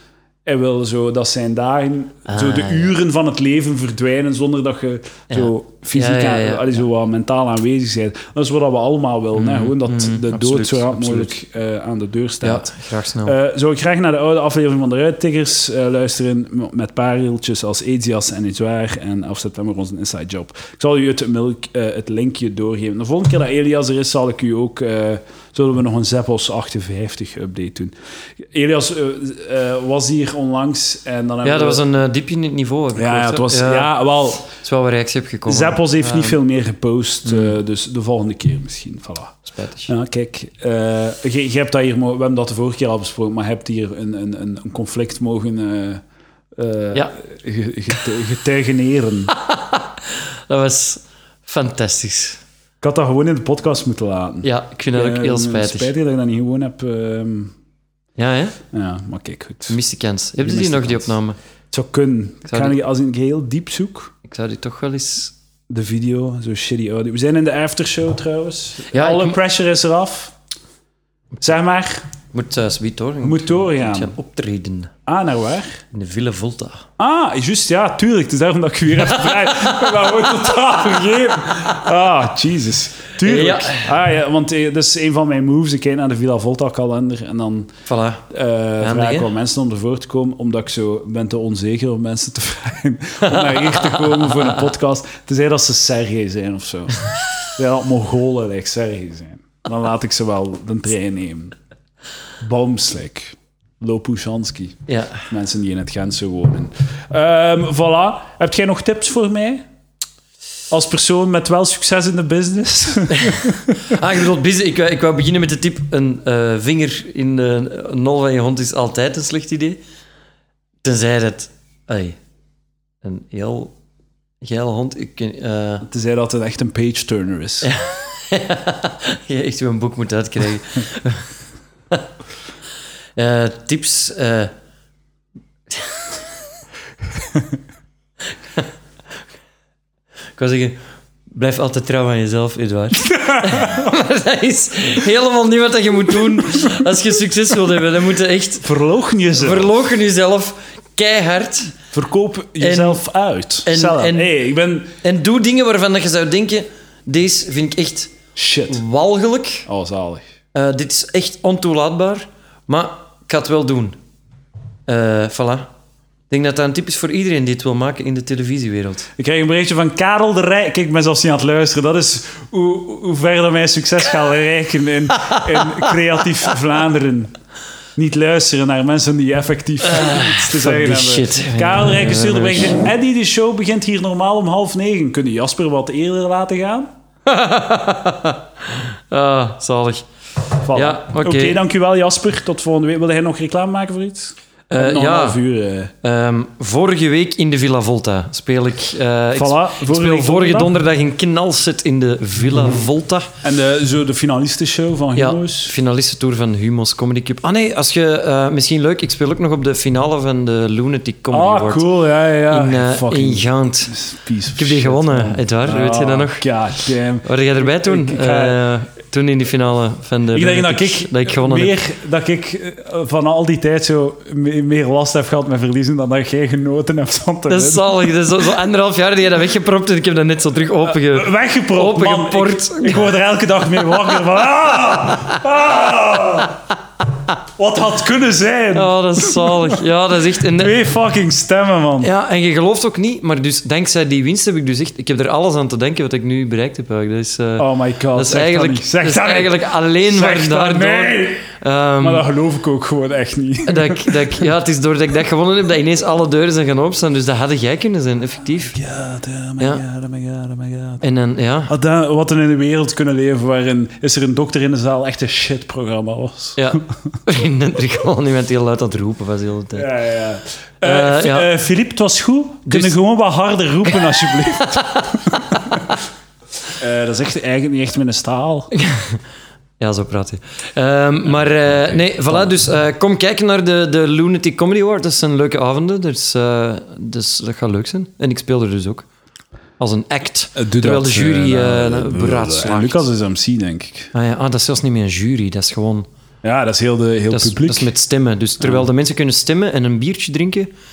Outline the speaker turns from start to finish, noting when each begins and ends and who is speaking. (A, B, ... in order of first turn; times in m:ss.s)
0:00.4-0:12.7 A
0:02.3-0:02.9 B
0:05.3-0:06.8 B
0:09.3-0:11.3 B
0:12.4-0:13.4 B
0:13.2-0:27.9 A
0:28.5-0:31.8 A
0:31.4-0:36.4 B
0:32.9-0:34.5 A
0:35.5-0:46.0 A
0:37.2-0:37.5 B
0:39.5-0:39.9 B
0:46.6-0:49.3 A
0:49.3-0:52.4 B
0:52.8-0:57.5 A
0:54.4-0:55.9 B
0:58.2-0:58.6 B
0:58.7-0:59.8 A
0:59.7-1:01.4 B
1:00.4-1:01.2 A
1:01.7-1:04.1 A
1:02.5-1:02.8 B
1:04.2-1:05.3 B
1:05.7-1:10.3 A
1:08.9-1:09.4 B
1:11.4-1:12.1 A
1:12.3-1:14.9 B
1:13.2-1:14.1 A
1:15.0-1:15.8 A
1:15.9-1:16.9 B
1:17.0-1:27.7 A
1:23.2-1:23.9 B
1:27.9-1:28.2 B
1:28.3-1:41.6 A
1:28.8-1:29.3 B
1:33.3-1:34.5 B
1:42.4-1:49.6 A
1:44.9-1:45.3 B
1:50.7-1:54.0 A
1:53.2-1:59.8 B
2:00.8-2:02.2 B
2:03.0-2:03.7 B
2:04.4-2:05.8 B
2:05.8-2:07.7 A
2:07.6-2:11.3 B
2:13.2-2:14.5 B
2:15.7-2:16.2 B
2:20.4-2:20.8 B
2:21.3-2:28.7 B
2:23.1-2:23.7 A
2:28.6-2:29.7 A
2:29.4-2:31.8 B
2:31.9-2:34.9 A
2:32.6-2:33.0 B
2:33.6-2:34.3 B
2:35.0-2:38.1 B
2:38.4-2:38.8 A
2:38.7-2:39.7 B
2:39.6-2:40.2 A
2:40.5-2:44.0 B
2:44.9-2:45.7 B
2:46.3-2:49.1 B
2:49.2-2:57.3 A
2:55.2-2:55.9 B
2:58.0-3:06.9 A
2:59.9-3:02.8 B
3:07.2-3:10.0 B
3:10.6-3:15.9 A
3:10.7-3:11.6 B
3:14.7-3:15.4 B
3:16.0-3:23.3 B
3:19.3-3:20.7 A
3:23.4-3:25.7 A
3:25.1-3:31.9 B
3:31.3-3:38.6 A
3:32.5-3:34.0 B
3:34.6-3:36.4 B
3:37.2-3:41.8 B
3:40.3-3:48.3 A
3:47.5-3:53.1 B
3:50.8-3:56.6 A
3:57.6-3:59.8 A
3:58.7-4:00.8 B
4:00.5-4:02.1 A
4:02.0-4:12.2 B
4:07.6-4:11.5 A
4:12.0-4:14.5 A
4:13.6-4:18.8 B
4:18.7-4:21.0 A
4:21.0-4:21.7 B
4:21.7-4:26.7 A
4:26.6-4:29.9 B
4:29.7-4:36.0 A
4:30.8-4:31.5 B
4:32.7-4:33.0 B
4:34.8-4:35.6 B
4:36.7-4:38.7 A
4:38.8-4:39.2 B
4:39.8-4:49.0 B
4:41.6-4:42.5 A
4:49.8-4:53.0 B
4:50.6-4:54.1 A
4:54.1-4:56.1 B
4:56.4-4:57.9 A
4:57.3-5:00.7 B
4:58.6-4:58.9 A